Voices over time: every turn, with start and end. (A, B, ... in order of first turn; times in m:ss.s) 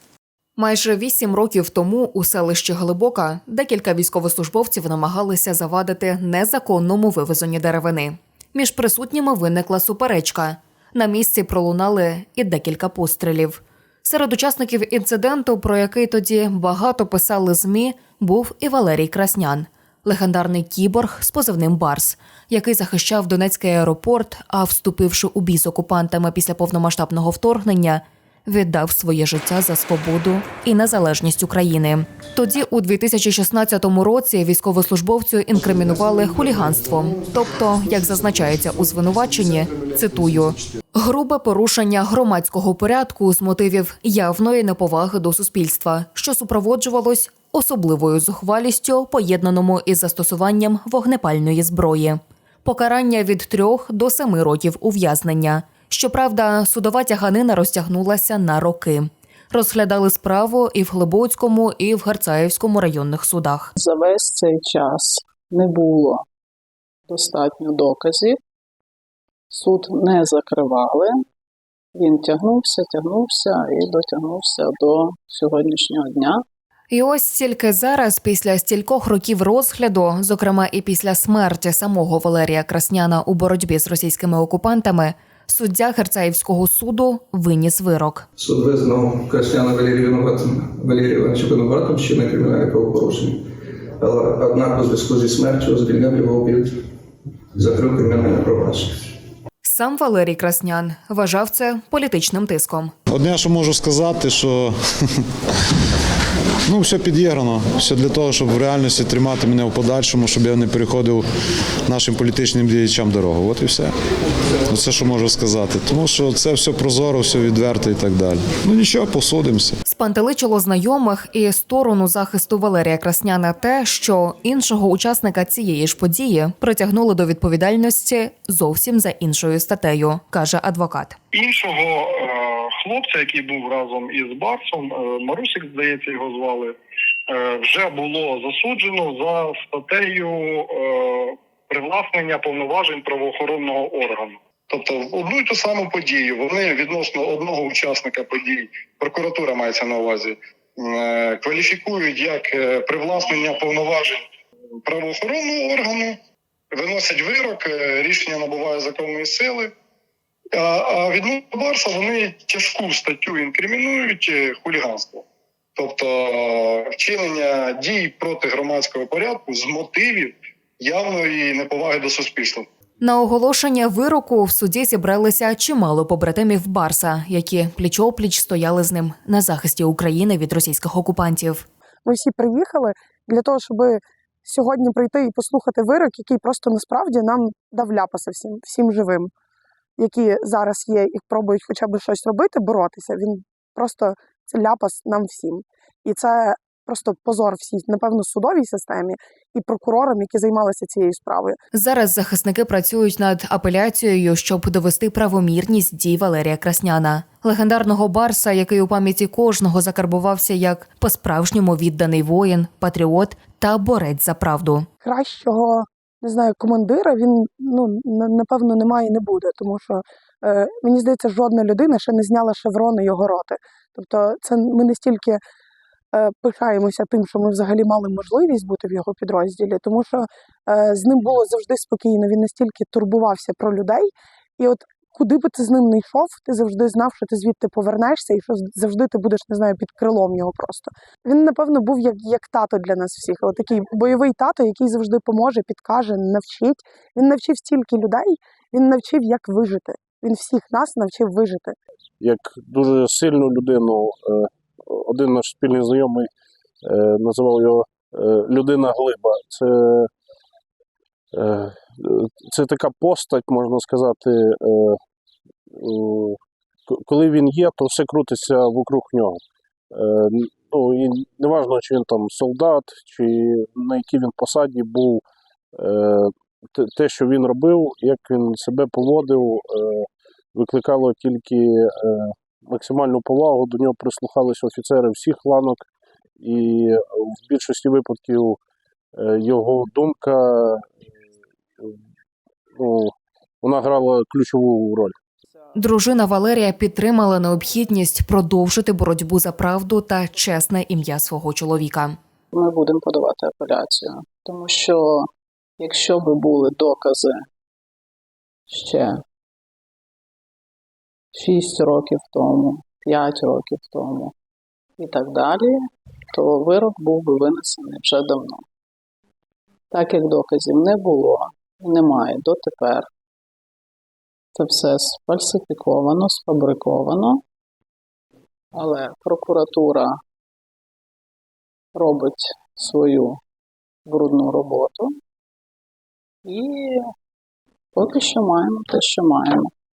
0:00.6-1:03.7 A
1:03.8-1:06.2 B
1:07.1-1:08.4 B
1:09.5-1:11.2 B
1:11.9-1:16.4 B
1:16.9-1:28.3 A
1:28.4-1:36.9 C
1:37.5-1:39.1 C
1:39.6-1:42.9 A
1:43.1-1:45.2 D
1:46.7-1:51.2 D
1:51.9-1:53.9 D
1:54.7-1:59.8 D
1:59.8-2:11.2 A
2:11.3-2:16.8 E
2:17.3-2:34.2 E
2:34.8-2:36.2 E
2:36.7-2:39.7 E
2:40.5-2:52.7 E
2:53.0-3:01.6 A
3:02.0-3:09.3 F
3:10.0-3:21.6 F
3:21.7-3:34.9 A
3:35.0-3:45.4 F
3:46.1-4:11.8 F
4:12.2-4:16.3 G
4:16.8-4:20.1 G
4:21.3-4:25.0 G
4:25.7-4:29.4 G
4:29.9-4:45.9 G
4:46.4-4:48.6 G
4:49.2-4:50.9 G
4:52.8-4:55.2 G
4:55.8-5:02.2 A
5:02.5-5:07.4 B
5:08.7-5:09.2 B
5:11.3-5:14.3 B
5:15.0-5:15.8 B
5:16.3-5:18.6 B
5:19.9-5:23.1 B
5:24.5-5:27.4 B
5:28.7-5:30.1 B
5:31.9-5:33.4 B
5:34.0-5:35.1 B
5:36.4-5:37.1 B
5:37.9-5:39.7 B